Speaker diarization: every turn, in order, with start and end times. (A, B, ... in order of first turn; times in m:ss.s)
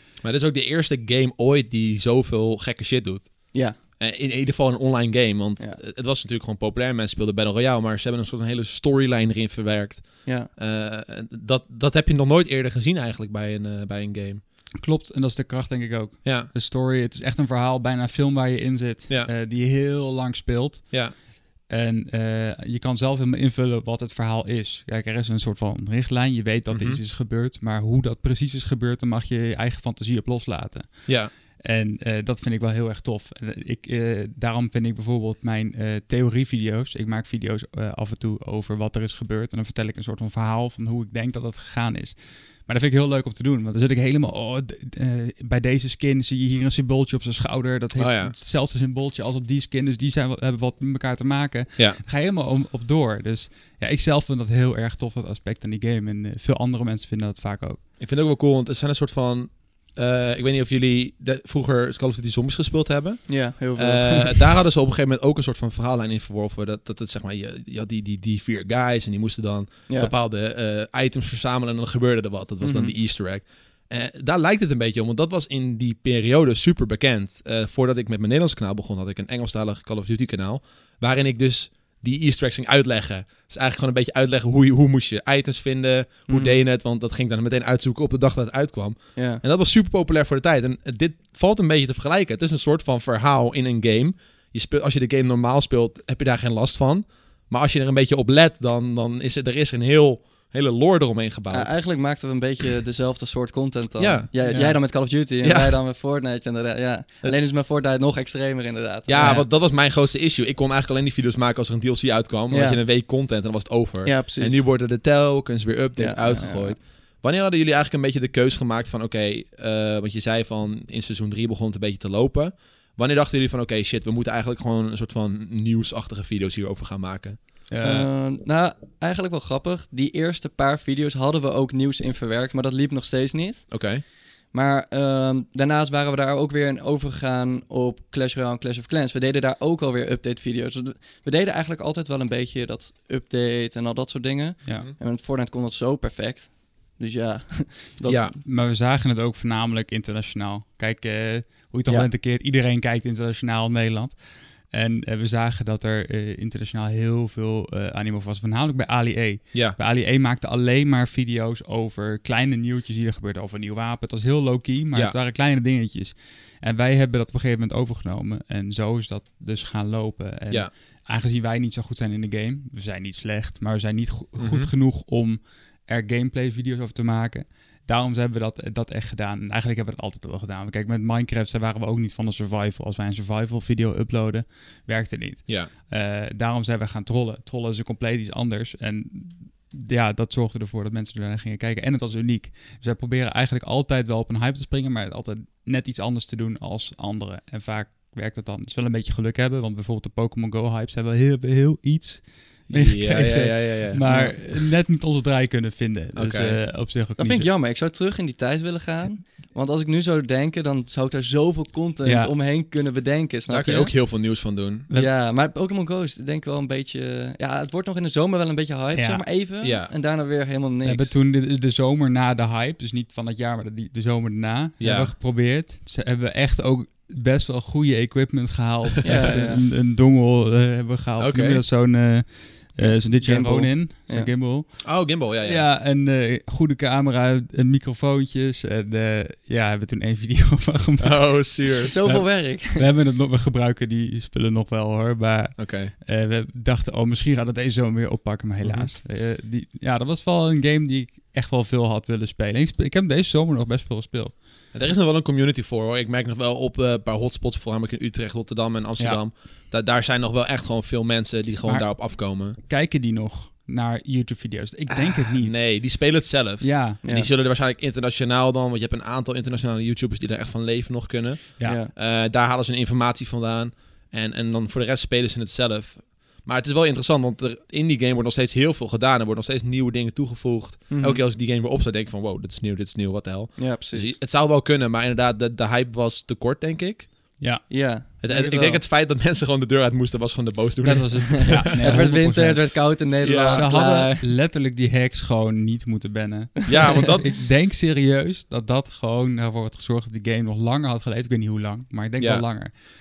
0:00.2-0:14.4 A
0:10.2-0:10.5 B
0:14.8-0:57.8 C
0:16.2-0:16.5 A
0:26.7-0:27.0 A
0:31.1-0:31.3 A
0:48.0-0:48.3 A
0:51.8-0:52.0 A
0:58.0-1:41.7 A
1:03.3-1:04.5 B
1:09.9-1:10.1 B
1:12.6-1:12.9 B
1:26.3-1:26.6 B
1:29.1-1:29.4 B
1:41.5-1:49.4 B
1:44.0-1:44.4 A
1:44.4-1:44.8 C
1:45.4-1:45.7 A
1:49.1-2:07.4 A
1:49.2-1:49.4 C
1:52.5-1:52.8 B
1:54.0-1:54.6 B
1:56.0-1:56.8 B
2:07.7-2:08.1 C
2:07.8-2:13.9 B
2:13.7-2:14.0 A
2:14.5-2:28.3 B
2:28.0-2:28.3 A
2:28.4-3:27.5 C
2:54.4-2:54.7 A
3:22.7-3:24.0 A
3:24.0-3:24.4 B
3:26.1-3:26.6 A
3:27.2-3:33.9 B
3:32.0-3:32.3 C
3:33.5-3:34.9 A
3:34.9-3:41.1 B
3:38.9-3:39.2 C
3:39.6-3:39.9 A
3:40.8-4:14.4 C
3:44.8-3:45.1 A
3:49.0-3:49.6 B
3:51.2-3:51.6 A
3:52.8-3:54.3 B
3:54.8-3:55.6 A
4:01.0-4:01.9 A
4:01.8-4:02.8 B
4:05.6-4:05.9 A
4:08.6-4:08.9 A
4:14.7-4:22.6 A
4:21.6-4:25.8 C
4:24.9-4:47.2 A
4:26.6-4:27.0 C
4:27.0-4:27.3 B
4:31.6-4:31.9 B
4:40.9-4:41.2 B
4:43.6-4:44.2 B
4:47.4-4:47.6 C
4:47.7-4:48.8 B
4:48.2-4:52.0 A
4:50.8-5:02.7 C
4:51.6-4:54.3 B
4:53.2-4:53.7 A
4:56.7-4:57.3 A
5:02.2-5:02.5 A